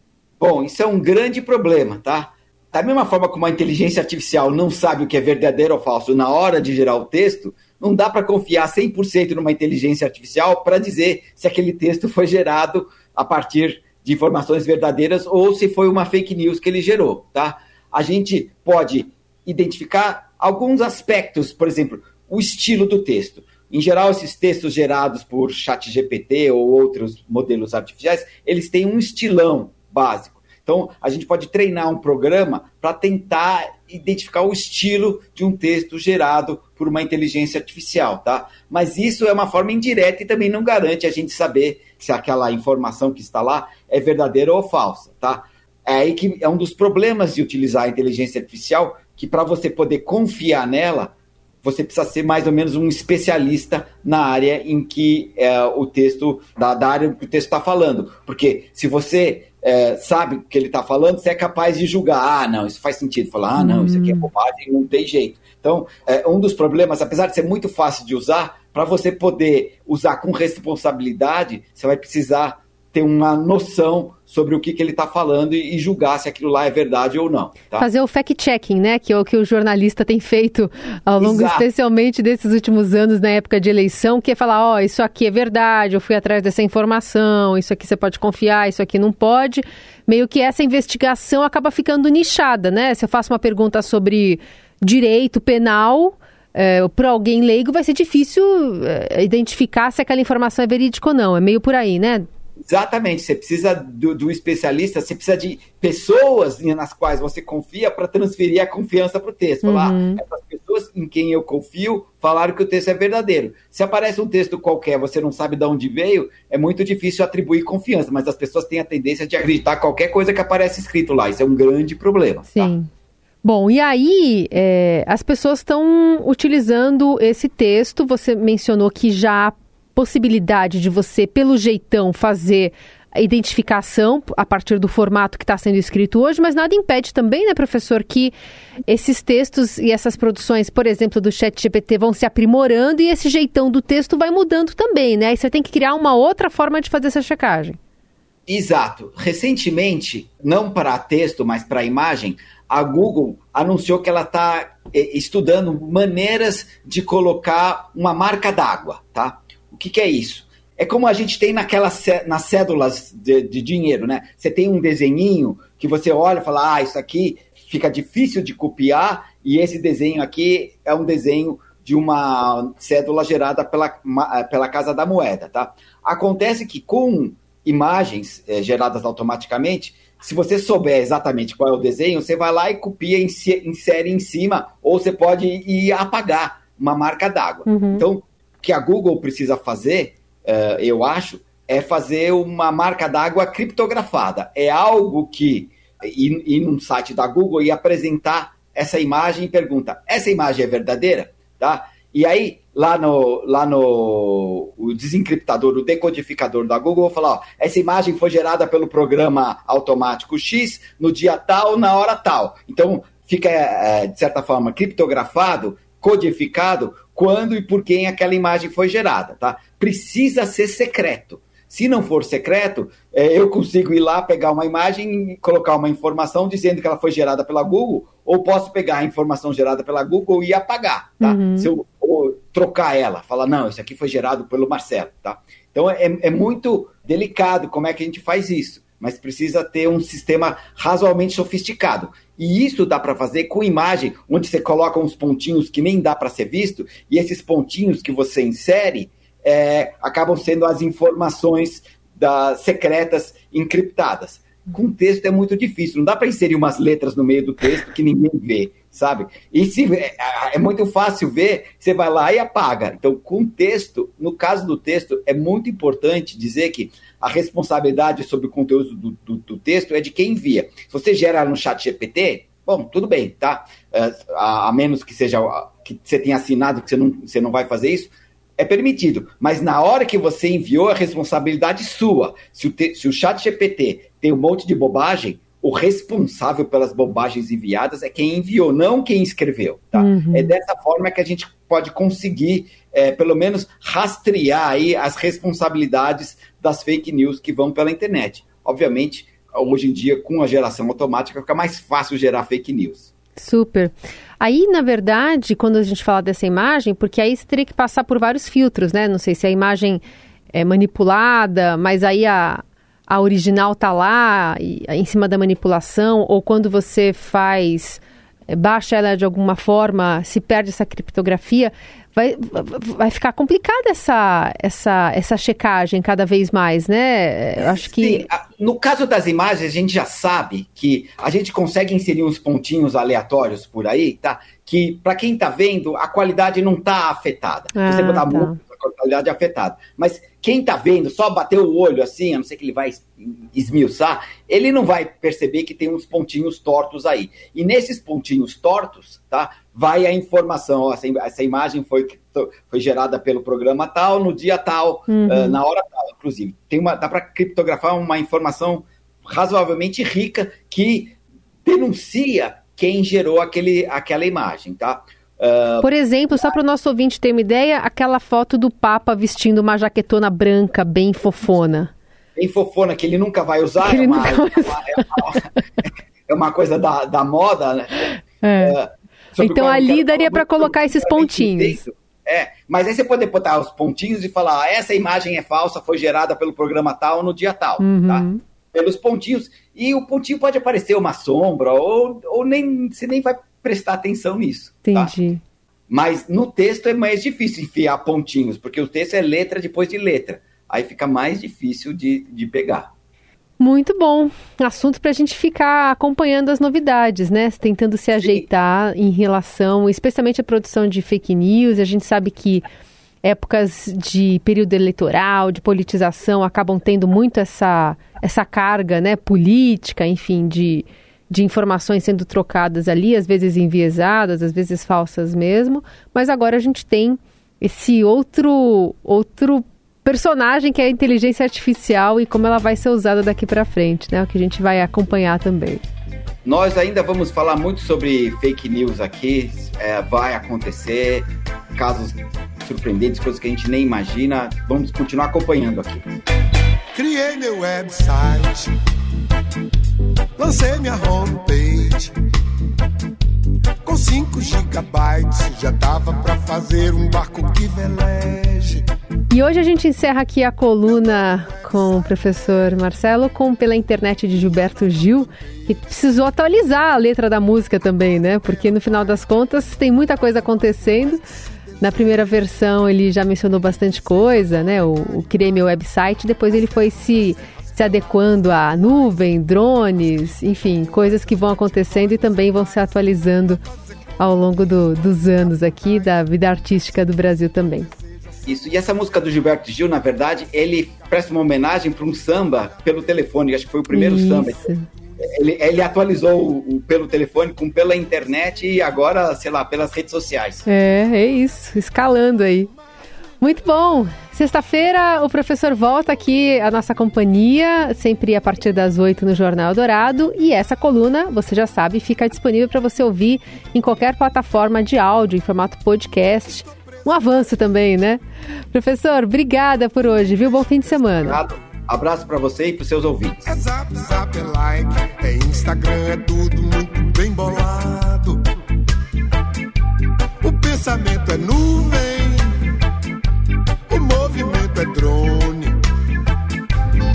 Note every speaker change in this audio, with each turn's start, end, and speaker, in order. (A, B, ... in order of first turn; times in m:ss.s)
0:00.4-1:17.9 A
1:03.6-1:04.3 B
1:17.8-1:42.3 B
1:21.2-1:21.7 A
1:42.7-2:02.7 A
1:49.6-1:50.2 B
2:02.5-2:02.9 B
2:03.4-2:18.3 B
2:18.9-2:27.8 B
2:28.5-5:03.1 A
3:07.7-3:08.0 B
3:51.2-3:51.7 B
4:50.0-4:50.6 B
5:03.4-5:10.0 B
5:10.5-5:28.3 B
5:27.6-6:06.6 A
5:37.7-5:38.6 B
5:55.1-5:55.6 B
6:05.8-6:11.9 B
6:12.4-6:15.5 A
6:13.8-6:15.6 B
6:16.3-6:35.1 A
6:18.4-6:18.8 B
6:19.4-6:21.8 B
6:27.8-6:28.4 B
6:34.8-6:35.4 B
6:35.9-6:42.9 A
6:43.6-6:52.6 B
6:53.2-7:15.9 B
7:16.4-7:26.0 A
7:26.9-7:28.7 C
7:30.4-7:32.1 C
7:33.8-7:38.8 C
7:39.3-7:51.2 B
7:51.8-8:03.6 B
8:04.2-8:07.9 B
8:08.5-8:14.7 A
8:13.9-8:14.9 B
8:15.2-8:20.6 A
8:20.7-8:22.7 B
8:23.4-8:41.4 B
8:41.2-8:43.5 A
8:43.5-8:48.4 C
8:50.4-8:52.7 C
8:53.9-8:55.8 C